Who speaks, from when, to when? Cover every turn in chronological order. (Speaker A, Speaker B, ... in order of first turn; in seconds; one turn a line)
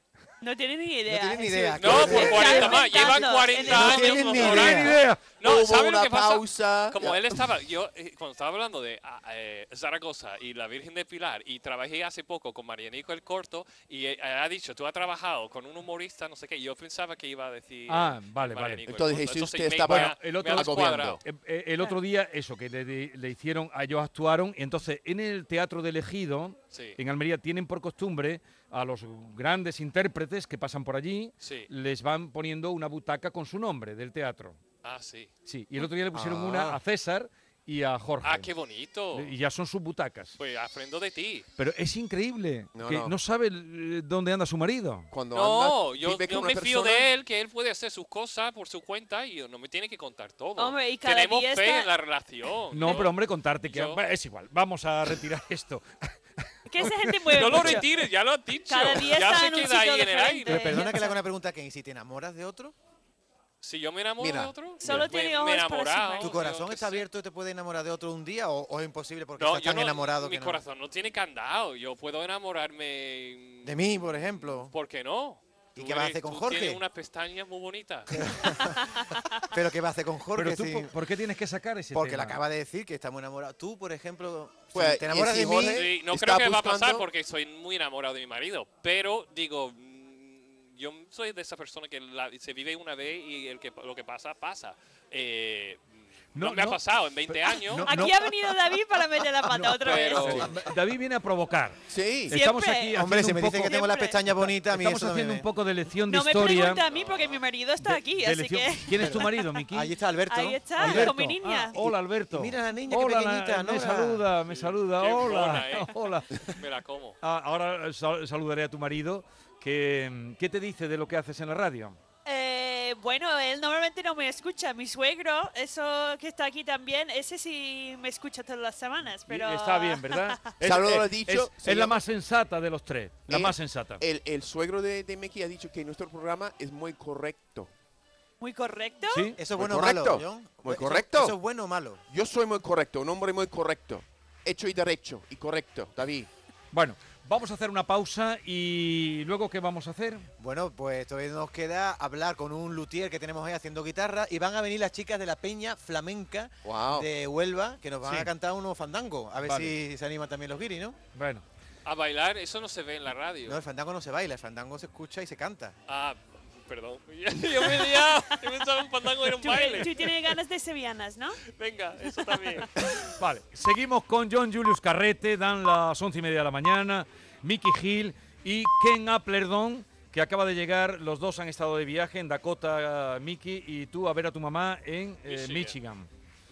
Speaker A: 0.4-4.6
Speaker B: 1.1-5.0
Speaker C: 1.8-21.2
Speaker D: 3.8-5.4
Speaker E: 4.7-7.4
Speaker D: 17.9-19.1
Speaker E: 18.9-21.2
Speaker D: 19.8-34.6
Speaker C: 26.7-27.0
Speaker C: 31.4-31.7
Speaker C: 34.8-35.3
Speaker D: 35.5-38.5
Speaker E: 36.1-36.8
Speaker C: 38.2-39.3
Speaker D: 39.1-40.4
Speaker C: 40.4-41.5
Speaker D: 41.6-45.1
Speaker E: 42.7-43.2
Speaker E: 45.1-47.1
Speaker C: 45.3-54.0
Speaker A: 50.6-51.9
Speaker D: 52.7-55.9
Speaker A: 56.7-57.9
Speaker D: 56.8-57.8
Speaker C: 57.3-60.9
Speaker A: 58.7-61.2
Speaker B: 60.5-62.8
Speaker C: 63.6-67.0
Speaker E: 64.2-65.1
Speaker A: 64.8-66.4
Speaker B: 66.2-70.6
Speaker C: 69.4-78.1
Speaker B: 73.6-74.7
Speaker B: 75.8-76.8
Speaker B: 78.1-78.8
Speaker A: 79.0-79.3
Speaker B: 79.5-80.9
Speaker D: 80.4-82.4
Speaker B: 81.9-85.9
Speaker E: 84.7-87.1
Speaker C: 85.7-98.0
Speaker D: 96.3-98.4
Speaker A: 97.8-100.5
Speaker D: 99.5-103.8
Speaker C: 99.8-100.6
Speaker E: 100.3-100.7
Speaker E: 101.9-102.3
Speaker A: 102.3-103.0
Speaker B: 103.0-105.5
Speaker A: 103.6-104.2
Speaker D: 104.3-106.8
Speaker A: 106.1-109.5
Speaker C: 106.5-107.4
Speaker D: 107.8-109.9
Speaker B: 108.9-111.1
Speaker A: 110.3-111.8
Speaker D: 110.8-116.5
Speaker B: 111.8-114.2
Speaker C: 114.5-117.2
Speaker D: 117.2-122.0
Speaker A: 122.2-130.5
Speaker D: 129.3-134.0
Speaker E: 130.6-132.0
Speaker E: 133.3-137.7
Speaker A: 138.4-139.3
Speaker D: 139.1-139.4
Speaker B: 139.4-142.0
Speaker E: 139.5-141.4
Speaker E: 142.1-146.3
Speaker D: 146.7-150.3
Speaker B: 150.4-161.0
Speaker E: 156.6-157.1
Speaker D: 158.0-158.3
Speaker D: 159.4-159.7
Speaker D: 161.2-161.4
Speaker C: 161.8-163.6
Speaker B: 163.5-165.7
Speaker C: 165.9-170.3
Speaker A: 169.4-171.4
Speaker C: 171.6-172.7
Speaker D: 173.0-186.1
Speaker C: 185.3-185.8